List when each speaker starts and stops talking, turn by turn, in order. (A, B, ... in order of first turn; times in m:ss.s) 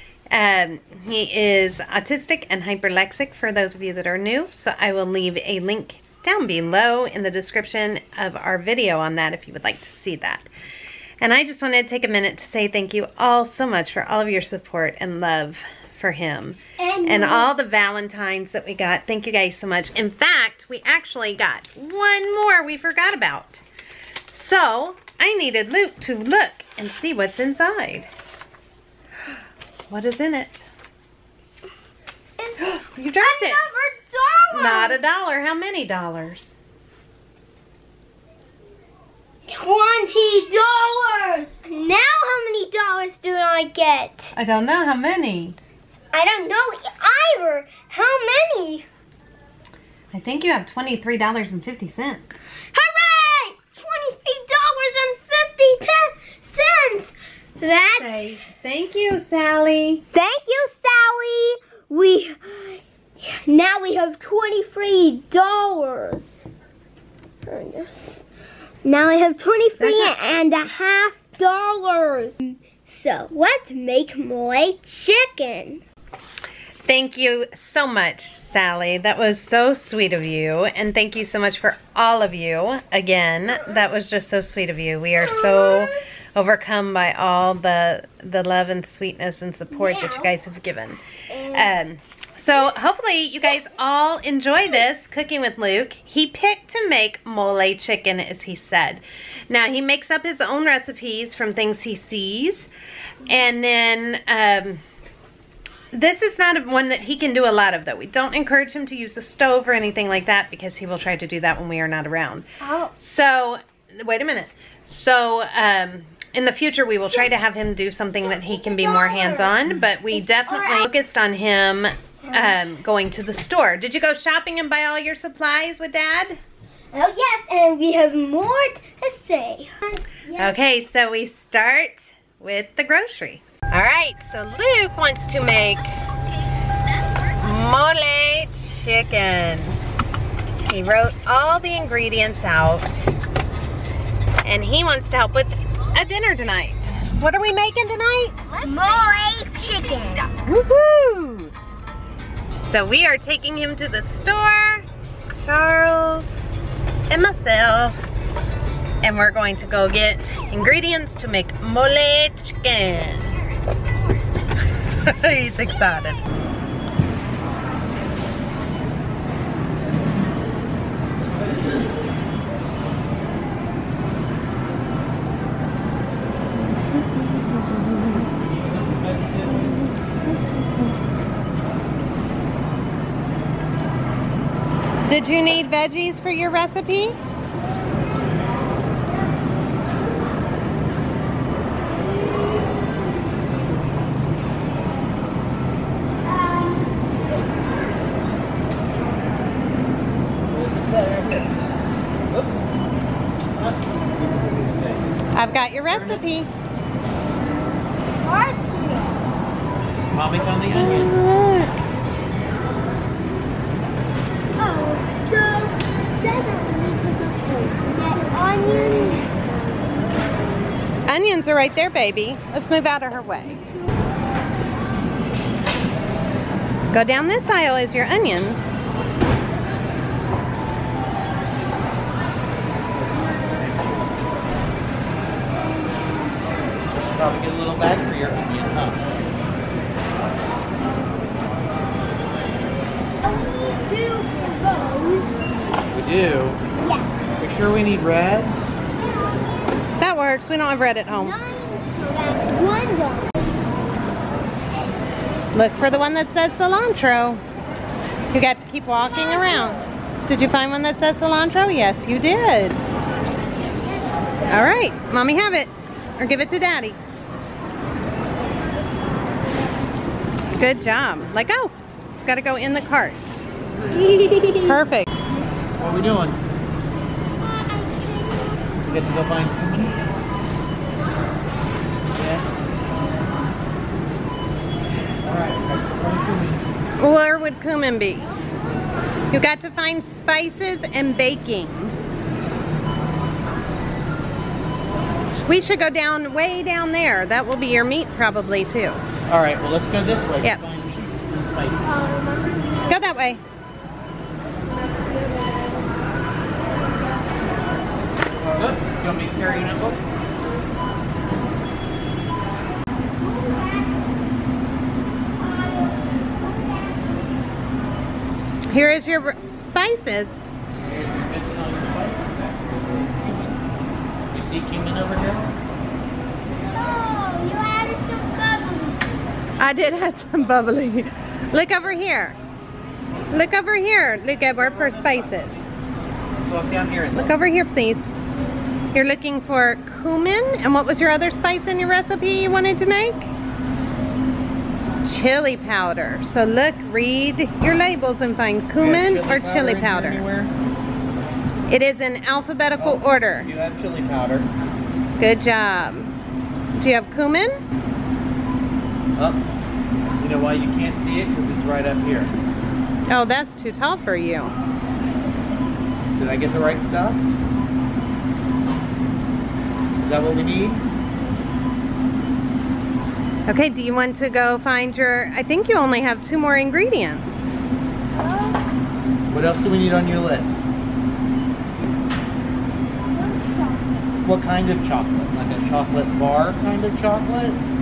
0:00.3-0:10.5 A
0:11.2-0:23.6 A
0:16.8-0:17.5 B
0:24.3-0:28.1 A
0:29.9-0:30.6 A
0:32.4-0:35.0 B
0:32.6-0:33.6 A
0:34.5-0:36.5 A
0:39.5-0:44.3 B
0:44.3-0:45.6 A
0:46.1-0:48.8 B
0:50.1-0:52.3 A
0:52.7-0:58.3 B
0:57.9-1:00.0 A
1:00.1-1:06.5 B
1:07.5-1:08.2 B
1:08.8-1:15.8 B
1:09.8-1:10.1 A
1:16.8-1:31.0 A
1:25.2-1:26.0 B
1:29.7-1:30.3 B
1:31.3-1:31.8 B
1:31.5-1:42.7 A
1:43.2-1:44.8 A
1:45.9-1:52.4 A
1:52.6-1:52.9 B
1:53.0-2:06.4 A
1:58.3-2:00.9 B
2:02.2-2:02.6 B
2:06.9-2:10.6 B
2:10.4-2:15.9 A
2:17.3-2:19.8 A
2:20.6-2:23.1 A
2:24.4-2:28.4 A
2:28.6-2:30.3 B
2:30.4-2:31.5 A
2:32.6-2:34.8 A
2:35.4-2:36.3 A
2:37.1-2:38.0 A
2:39.0-2:43.3 A
2:45.0-2:46.2 A
2:58.2-2:59.7 C
3:05.0-3:07.2 A
3:16.3-3:17.4 B
3:20.5-3:21.5 C
3:22.3-3:22.6 C
3:23.5-3:25.1 C
3:25.3-3:26.5 A
3:25.7-3:26.2 C
3:28.2-3:29.2 B
3:30.1-3:31.2 C
3:30.7-3:31.7 A
3:34.6-3:40.4 B
3:41.1-3:43.6 A
3:46.9-3:48.7 A
3:57.0-3:59.0 C
4:03.2-4:05.4 B
4:05.9-4:06.6 C
4:06.8-4:07.1 B
4:07.4-4:08.6 C
4:09.0-4:09.8 B
4:10.0-4:11.4 A
4:11.1-4:13.3 B
4:15.5-4:17.4 A
4:18.3-4:22.8 A
4:24.5-4:27.0 A
4:30.5-4:33.2 A
4:33.9-4:34.7 B
4:34.5-4:35.1 A
4:35.8-4:36.4 C
4:38.8-4:40.0 C
4:42.1-4:42.4 C
4:45.2-4:46.6 C
4:47.0-4:48.3 A
4:49.3-4:52.0 A
4:55.3-4:59.0 A
4:59.3-5:01.9 C
5:01.8-5:03.0 B
5:02.8-5:03.4 A
5:04.9-5:05.9 B
5:08.5-5:10.0 C
5:13.2-5:14.1 B
5:15.4-5:17.2 B
5:18.7-5:20.4 A
5:20.8-5:23.6 C
5:24.3-5:25.5 C
5:26.7-5:29.3 B
5:29.6-5:32.4 A
5:33.3-5:35.6 A
5:34.6-5:35.6 C
5:36.4-5:37.4 C
5:37.1-5:38.1 A
5:38.9-5:43.3 A
5:45.0-5:50.2 A
5:48.8-5:50.5 C
5:51.7-5:53.5 A
5:52.8-5:54.5 C
5:55.2-5:56.1 A
5:56.8-5:57.6 A
5:59.2-5:59.4 C
6:00.2-6:02.3 C
6:03.1-6:04.5 A
6:06.2-6:07.2 C
6:10.0-6:10.8 C
6:13.5-6:17.5 A
6:18.1-6:18.6 B
6:19.3-6:20.6 C
6:23.1-6:24.0 B
6:24.2-6:27.6 C